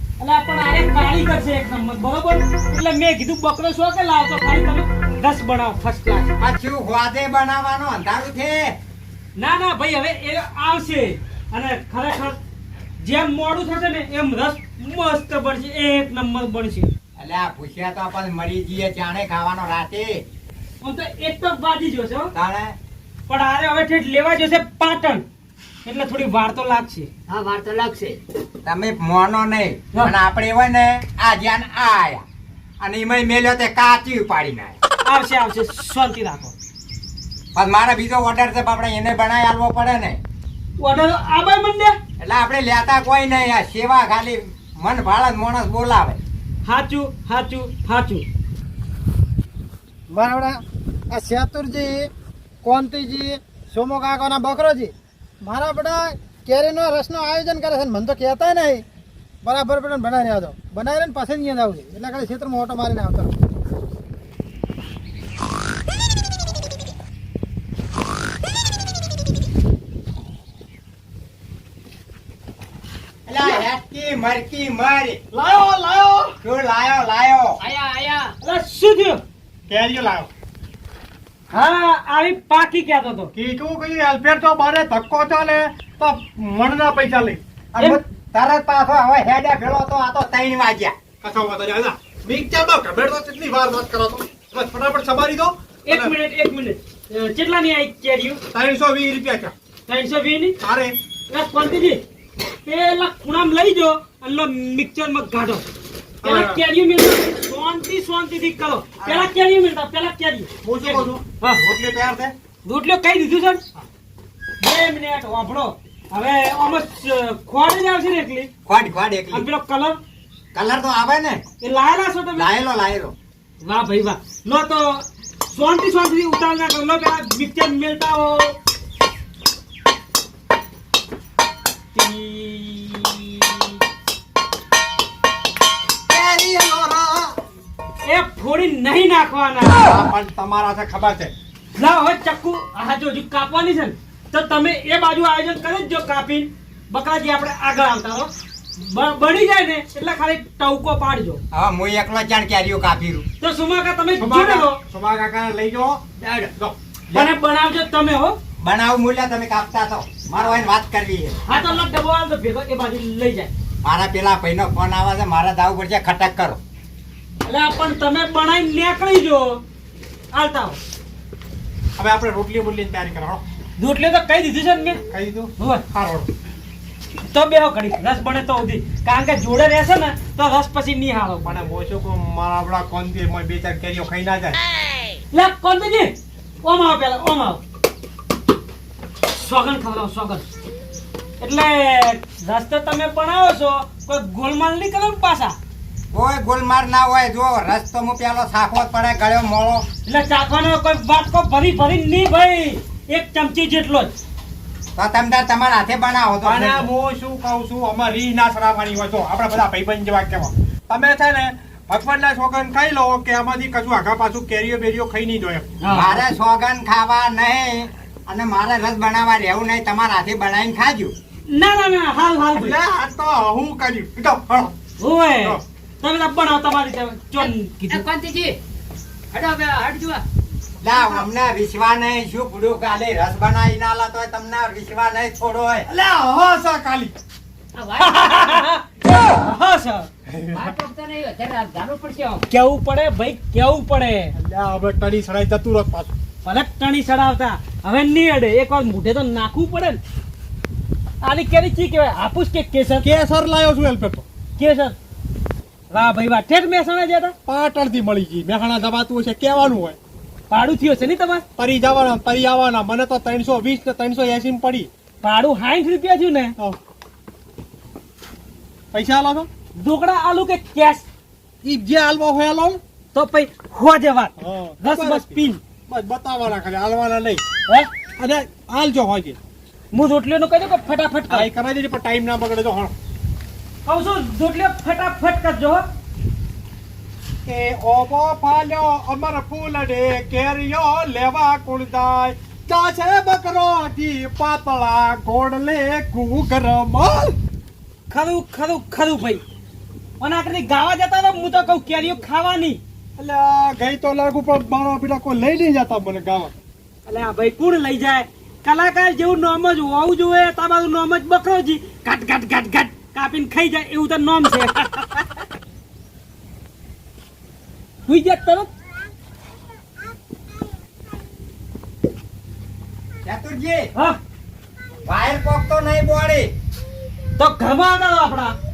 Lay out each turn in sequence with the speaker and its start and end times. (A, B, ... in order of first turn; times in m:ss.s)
0:00.2-0:06.3 A
0:06.4-0:08.8 B
0:09.4-0:12.4 A
0:13.0-0:16.9 A
0:17.2-0:20.2 B
0:20.8-0:22.3 A
0:22.3-0:22.8 B
0:23.3-0:25.2 A
0:25.8-0:27.1 A
0:27.3-0:28.2 C
0:28.6-0:32.2 B
0:32.8-0:34.8 B
0:35.0-0:36.5 A
0:37.6-0:40.2 B
0:40.8-0:42.0 A
0:42.2-0:46.2 B
0:46.6-0:48.3 A
0:50.1-0:52.1 D
0:52.6-0:58.8 D
0:59.4-1:03.4 D
1:13.3-1:15.2 B
1:15.3-1:16.4 E
1:16.4-1:17.6 B
1:17.6-1:18.3 C
1:18.4-1:19.2 A
1:19.7-1:20.3 E
1:21.5-1:23.3 A
1:23.4-1:27.4 E
1:27.7-1:31.0 B
1:31.2-1:36.1 E
1:35.9-1:38.4 A
1:38.5-1:39.5 E
1:39.9-1:40.6 A
1:40.6-1:41.0 E
1:41.3-1:42.0 A
1:42.6-1:45.6 A
1:46.2-1:46.6 E
1:46.2-1:51.6 A
1:49.0-1:49.3 E
1:50.6-1:52.3 E
1:52.6-1:53.6 A
1:54.6-1:58.5 A
1:58.7-1:59.5 B
1:59.3-2:00.0 A
2:00.5-2:01.4 B
2:01.6-2:02.5 A
2:02.3-2:03.2 B
2:03.6-2:08.6 A
2:12.0-2:13.7 A
2:16.1-2:17.4 E
2:18.0-2:19.8 A
2:19.8-2:21.3 E
2:21.8-2:31.4 A
2:31.5-2:33.2 B
2:33.4-2:34.8 A
2:34.2-2:36.0 E
2:36.2-2:36.5 C
2:37.1-2:38.4 A
2:38.6-2:41.4 B
2:41.5-2:43.5 A
2:43.8-2:46.6 B
2:47.4-2:49.6 A
2:50.3-2:50.8 A
2:52.0-2:53.4 E
2:53.8-2:55.0 A
2:55.1-2:56.3 E
2:55.6-2:55.8 A
2:57.3-3:01.6 A
3:01.4-3:04.6 E
3:05.3-3:07.6 A
3:09.3-3:10.5 A
3:11.4-3:15.6 A
3:16.1-3:19.9 B
3:20.1-3:24.1 A
3:25.0-3:26.9 B
3:26.4-3:35.7 E
3:35.8-3:36.3 C
3:35.9-3:41.2 B
3:41.5-3:42.8 A
3:42.6-3:44.7 E
3:45.0-3:48.1 A
3:47.4-3:48.6 C
3:49.3-3:50.2 C
3:50.8-3:55.9 B
3:51.0-3:51.3 C
3:55.9-3:57.1 E
3:57.8-3:58.7 C
3:58.0-4:00.1 A
4:00.3-4:00.7 E
4:00.5-4:02.4 C
4:02.5-4:04.3 A
4:04.4-4:06.1 E
4:06.4-4:10.0 A
4:11.2-4:13.1 A
4:13.0-4:14.2 E
4:14.6-4:15.0 A
4:15.9-4:17.4 A
4:17.5-4:20.0 E
4:20.5-4:21.4 A
4:21.6-4:24.9 E
4:25.2-4:26.6 A
4:28.9-4:29.5 E
4:29.8-4:31.1 A
4:31.6-4:32.8 E
4:33.1-4:35.6 A
4:34.4-4:37.4 E
4:38.2-4:39.4 E
4:39.9-4:41.5 A
4:41.3-4:42.9 E
4:43.8-4:45.8 A
4:47.5-4:57.4 E
4:58.1-4:59.4 A
5:00.2-5:02.8 A
5:03.2-5:06.5 E
5:07.1-5:15.2 A
5:18.1-5:18.7 A
5:23.2-5:23.9 B
5:25.0-5:26.5 B
5:27.4-5:28.6 A